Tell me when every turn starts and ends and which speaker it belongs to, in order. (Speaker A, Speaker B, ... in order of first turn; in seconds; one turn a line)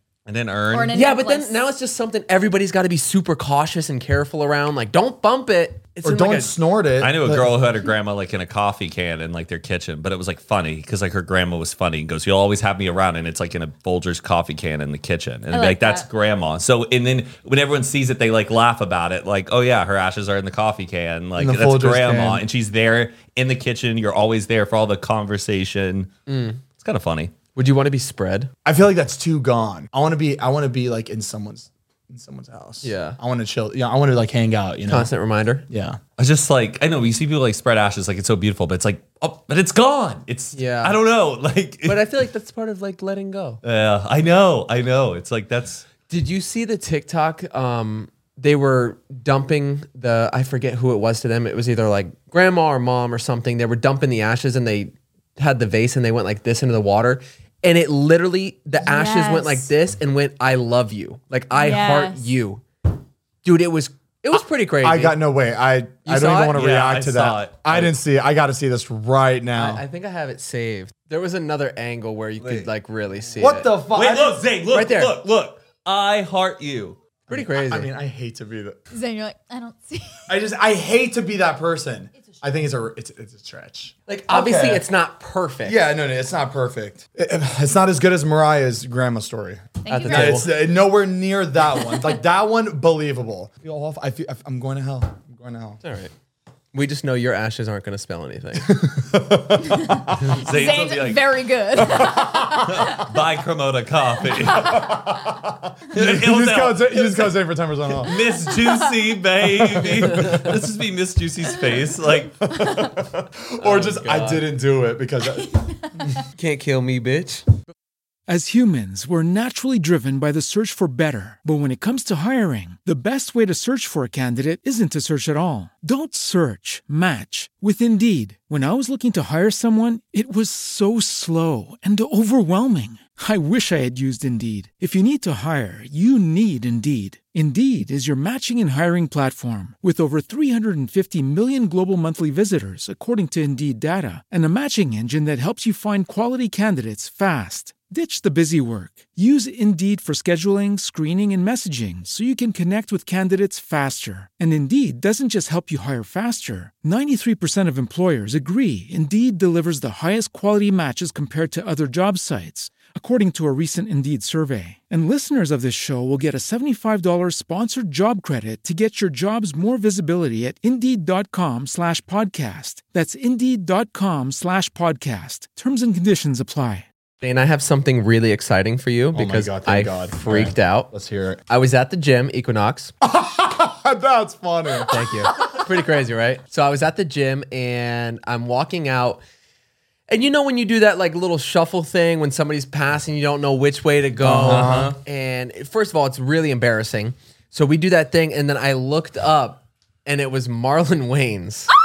Speaker A: 0.3-0.9
Speaker B: 0.7-1.6
Speaker C: 0.9-6.5
Speaker D: 6.0-7.5
Speaker A: 7.0-26.1
Speaker B: 15.5-16.1
Speaker D: 21.4-22.4
Speaker C: 26.3-26.6
Speaker A: 26.7-27.3
Speaker C: 27.6-28.5
Speaker D: 28.6-35.1
Speaker C: 32.8-33.2
Speaker C: 34.9-35.6
Speaker D: 35.7-36.0
Speaker A: 36.2-42.1
Speaker C: 40.5-41.0
Speaker C: 41.8-43.6
Speaker A: 43.6-45.9
Speaker C: 46.1-62.6
Speaker B: 58.8-59.7
Speaker B: 61.5-62.3
Speaker C: 63.4-65.2
Speaker D: 64.8-69.8
Speaker C: 66.0-66.6
Speaker A: 66.5-67.9
Speaker C: 69.5-73.7
Speaker D: 73.4-74.4
Speaker A: 73.9-77.0
Speaker C: 74.7-75.2
Speaker D: 77.3-78.8
Speaker C: 77.3-77.9
Speaker B: 78.9-80.3
Speaker D: 80.3-84.8
Speaker C: 84.1-85.8
Speaker D: 85.7-95.8
Speaker B: 89.8-90.5
Speaker C: 89.9-90.5
Speaker C: 95.8-96.1
Speaker C: 96.7-98.8
Speaker D: 98.6-100.2
Speaker B: 99.7-103.0
Speaker A: 100.4-101.4
Speaker D: 101.8-102.9
Speaker A: 102.7-105.0
Speaker D: 104.5-108.1
Speaker A: 105.9-107.3
Speaker A: 108.0-112.4
Speaker B: 108.5-108.8
Speaker D: 109.7-110.4
Speaker D: 112.4-115.6
Speaker C: 113.6-114.4
Speaker C: 116.4-117.6
Speaker E: 118.3-176.9
Speaker C: 177.2-180.9
Speaker D: 179.1-181.4
Speaker C: 181.5-182.9
Speaker D: 183.0-185.0
Speaker C: 184.9-189.2
Speaker C: 190.1-201.7
Speaker D: 194.2-194.9
Speaker A: 194.3-195.0